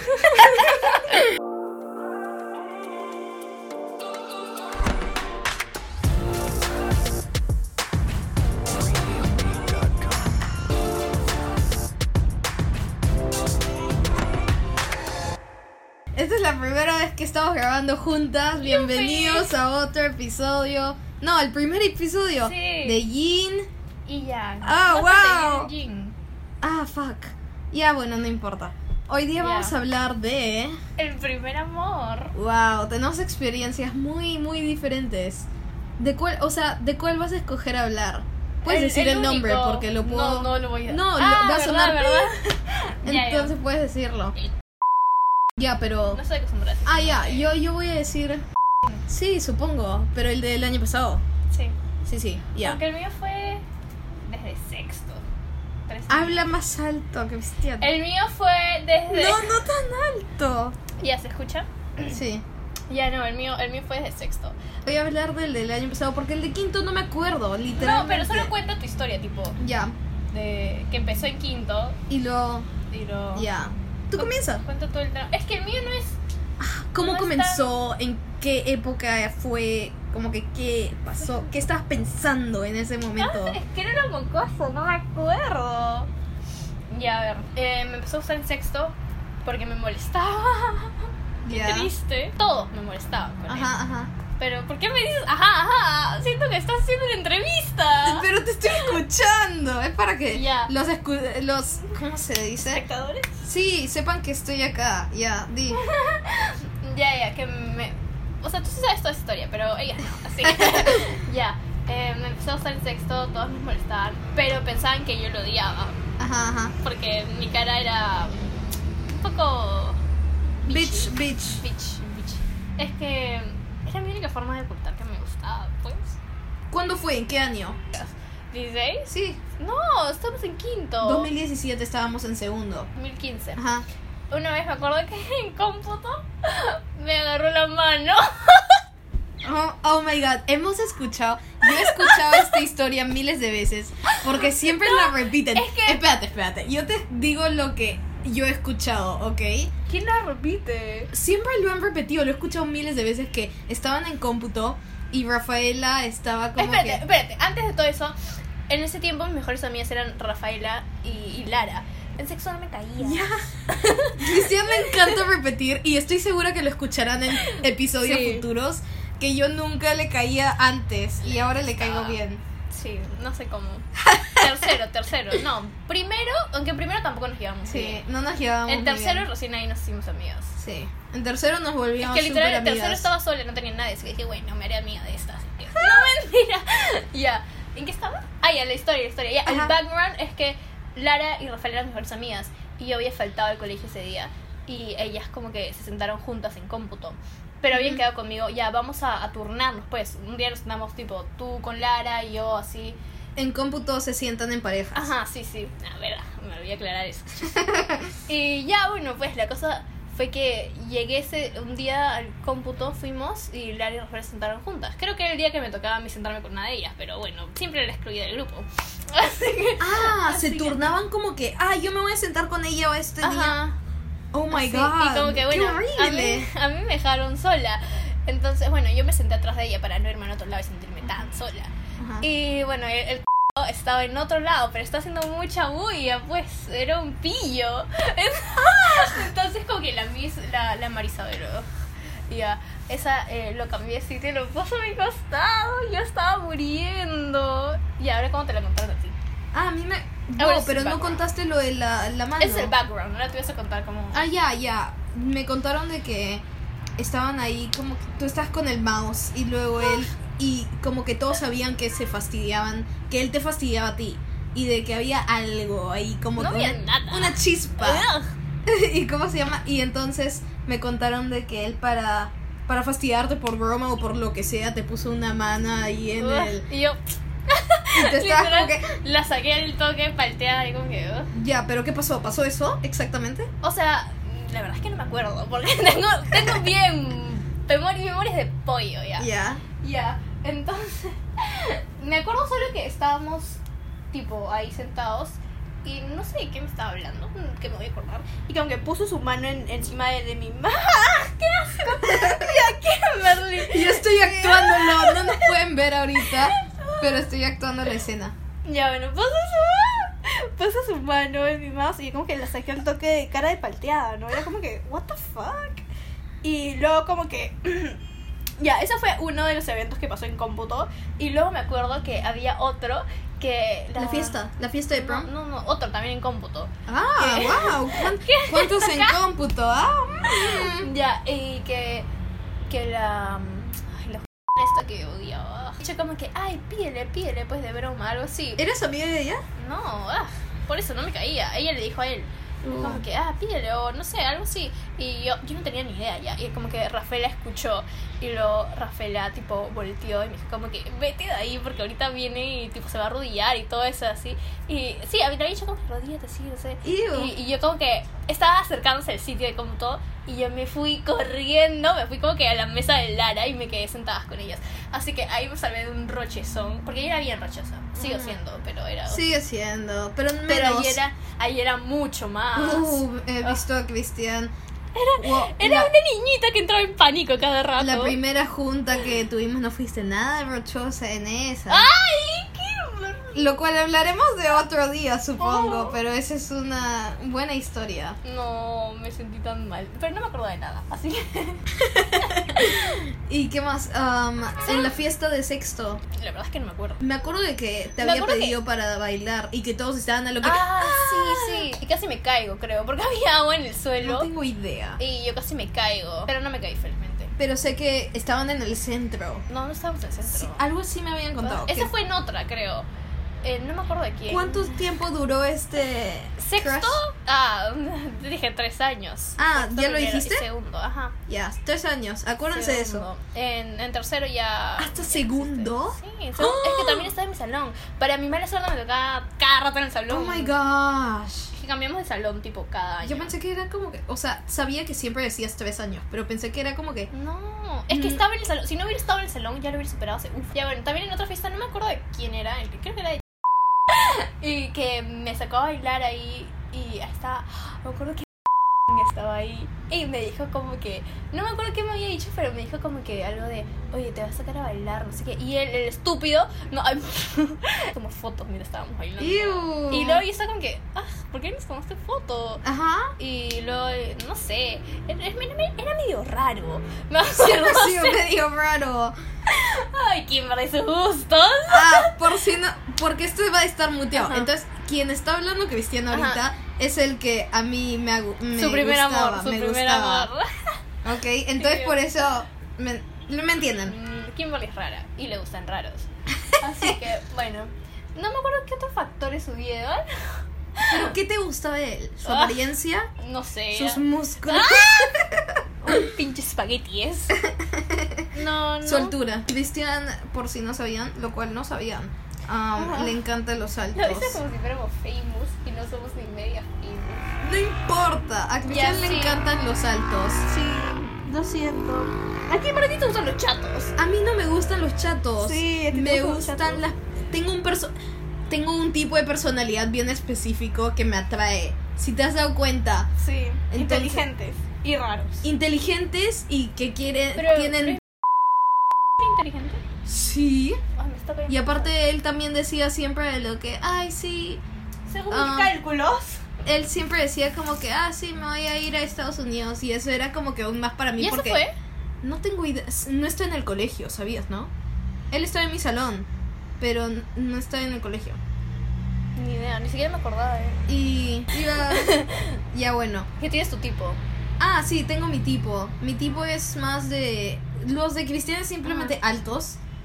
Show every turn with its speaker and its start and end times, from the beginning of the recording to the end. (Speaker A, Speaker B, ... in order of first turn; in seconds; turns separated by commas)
Speaker A: 0.1-1.0, Speaker B: 0.4-0.7, Speaker B: 16.1-23.7, Speaker A: 18.6-19.5, Speaker A: 22.4-23.0, Speaker A: 24.1-26.1, Speaker B: 24.6-25.7, Speaker B: 26.6-30.8, Speaker A: 29.4-29.8, Speaker A: 31.0-32.4, Speaker B: 32.4-42.3, Speaker A: 38.7-43.6, Speaker B: 43.0-44.3, Speaker B: 45.6-46.2, Speaker A: 46.1-47.5, Speaker B: 46.9-48.5, Speaker B: 49.1-51.2, Speaker A: 51.5-51.8, Speaker B: 52.0-52.8, Speaker A: 52.6-53.6, Speaker A: 54.3-55.2, Speaker A: 55.9-56.5, Speaker B: 56.1-57.9, Speaker A: 57.8-59.5, Speaker B: 59.1-60.8, Speaker A: 61.0-62.2, Speaker B: 62.1-62.5, Speaker A: 62.9-64.6, Speaker B: 64.8-68.5, Speaker A: 67.7-69.6, Speaker B: 69.6-70.0, Speaker A: 70.3-72.0, Speaker B: 72.1-72.7, Speaker A: 72.9-73.5, Speaker B: 73.4-74.6, Speaker A: 74.2-76.2, Speaker B: 76.6-83.6, Speaker A: 77.0-77.8, Speaker A: 83.2-86.1, Speaker A: 86.9-93.7, Speaker B: 91.5-91.9, Speaker B: 93.5-94.1, Speaker A: 94.4-99.0, Speaker B: 98.0-102.8, Speaker A: 100.3-100.7, Speaker A: 102.7-103.4, Speaker B: 103.4-105.8, Speaker A: 105.7-116.0, Speaker B: 110.4-111.1, Speaker B: 116.2-116.8, Speaker A: 116.8-118.5, Speaker A: 119.1-120.0, Speaker A: 120.6-126.2, Speaker B: 120.7-121.6, Speaker B: 126.7-127.8, Speaker A: 127.9-131.3, Speaker B: 129.1-129.4, Speaker B: 131.0-132.9, Speaker A: 132.9-133.6, Speaker B: 133.6-133.9, Speaker A: 134.3-138.8, Speaker B: 139.4-149.7, Speaker A: 141.6-142.6, Speaker A: 144.1-146.1, Speaker A: 149.9-151.1, Speaker B: 151.1-157.0, Speaker A: 156.6-158.2, Speaker A: 158.7-165.2, Speaker B: 163.0-172.4, Speaker A: 167.4-168.5, Speaker A: 171.2-172.2, Speaker A: 172.7-178.0, Speaker B: 174.0-174.7, Speaker B: 177.7-179.3, Speaker A: 178.7-180.6, Speaker B: 180.6-183.1, Speaker A: 182.0-203.0, Speaker B: 185.8-186.1, Speaker B: 189.5-189.8, Speaker B: 197.7-198.0, Speaker B: 203.4-205.1, Speaker A: 204.9-220.9, Speaker B: 207.5-208.1, Speaker B: 219.8-223.6, Speaker A: 223.2-223.8, Speaker B: 224.3-226.5, Speaker A: 224.5-241.7, Speaker B: 232.0-232.2, Speaker A: 242.3-249.2, Speaker B: 249.5-252.7, Speaker A: 250.4-251.2, Speaker A: 252.4-254.3, Speaker B: 254.1-256.4, Speaker B: 257.0-268.1, Speaker A: 266.4-268.3, Speaker B: 268.7-276.7, Speaker A: 276.2-281.3, Speaker B: 277.9-278.9, Speaker B: 281.3-283.5, Speaker A: 283.6-289.3, Speaker B: 289.2-289.6, Speaker A: 289.8-293.6, Speaker A: 294.1-305.6, Speaker B: 302.0-302.7, Speaker B: 303.6-308.4, Speaker A: 306.2-307.3, Speaker A: 308.6-315.9, Speaker A: 316.4-318.0, Speaker A: 318.6-329.2, Speaker B: 324.0-325.3, Speaker B: 326.9-330.9, Speaker A: 330.3-332.1, Speaker A: 332.7-338.6, Speaker B: 338.6-339.4, Speaker A: 339.6-369.3, Speaker B: 342.6-343.0, Speaker B: 356.8-357.3, Speaker B: 368.0-368.4, Speaker B: 369.1-371.0, Speaker A: 370.5-373.6, Speaker B: 372.6-374.5, Speaker A: 374.9-378.2, Speaker B: 375.2-375.9, Speaker B: 377.8-381.9, Speaker A: 381.7-383.6, Speaker B: 383.4-388.2, Speaker A: 385.4-386.0, Speaker A: 388.2-393.0, Speaker B: 391.8-396.0, Speaker A: 394.6-394.9, Speaker A: 396.1-397.0, Speaker B: 397.0-401.6, Speaker A: 398.0-398.6, Speaker A: 400.4-404.3, Speaker B: 404.0-405.0, Speaker A: 405.0-407.3, Speaker B: 407.4-409.4, Speaker A: 409.5-410.6, Speaker B: 410.3-411.9, Speaker A: 411.4-412.9, Speaker A: 413.4-414.8, Speaker B: 414.3-417.0, Speaker A: 416.4-421.2, Speaker B: 419.4-420.5, Speaker B: 421.3-423.1, Speaker A: 422.5-430.6, Speaker B: 424.8-427.1, Speaker B: 430.1-431.5, Speaker A: 431.5-433.3, Speaker B: 433.0-437.1, Speaker A: 437.1-443.2, Speaker B: 437.9-438.2, Speaker A: 443.9-448.3, Speaker A: 448.9-462.6, Speaker B: 459.2-460.2, Speaker B: 462.6-463.1, Speaker A: 463.2-468.3, Speaker B: 467.4-469.1, Speaker A: 469.5-472.3, Speaker B: 471.7-480.3, Speaker A: 474.1-474.5, Speaker A: 476.1-476.4, Speaker A: 478.5-480.8, Speaker B: 481.0-483.9, Speaker A: 481.6-482.3, Speaker A: 483.9-491.1, Speaker B: 486.5-487.0, Speaker B: 490.9-493.1, Speaker A: 492.2-495.2, Speaker B: 493.7-496.0, Speaker A: 495.8-497.4, Speaker B: 497.4-498.3, Speaker A: 498.3-499.2, Speaker B: 498.8-504.4, Speaker A: 502.8-503.2, Speaker A: 503.9-507.3, Speaker B: 507.4-510.5, Speaker A: 508.7-509.4, Speaker A: 510.5-514.0, Speaker B: 511.4-511.8, Speaker B: 514.0-517.9, Speaker A: 515.4-516.8, Speaker B: 518.5-523.1, Speaker A: 523.2-525.5, Speaker B: 523.7-524.3, Speaker B: 525.4-528.0, Speaker A: 527.4-528.0, Speaker A: 529.2-529.8, Speaker B: 530.1-530.8, Speaker A: 531.0-531.9, Speaker B: 531.5-534.6, Speaker A: 535.1-536.4, Speaker B: 535.3-535.8, Speaker B: 536.6-541.6, Speaker A: 541.2-541.7, Speaker B: 542.2-544.7, Speaker B: 545.3-546.3, Speaker B: 546.8-548.4, Speaker A: 549.4-550.8, Speaker B: 550.9-553.3, Speaker A: 551.6-552.6, Speaker A: 553.4-554.2, Speaker B: 554.6-559.8, Speaker A: 558.9-559.1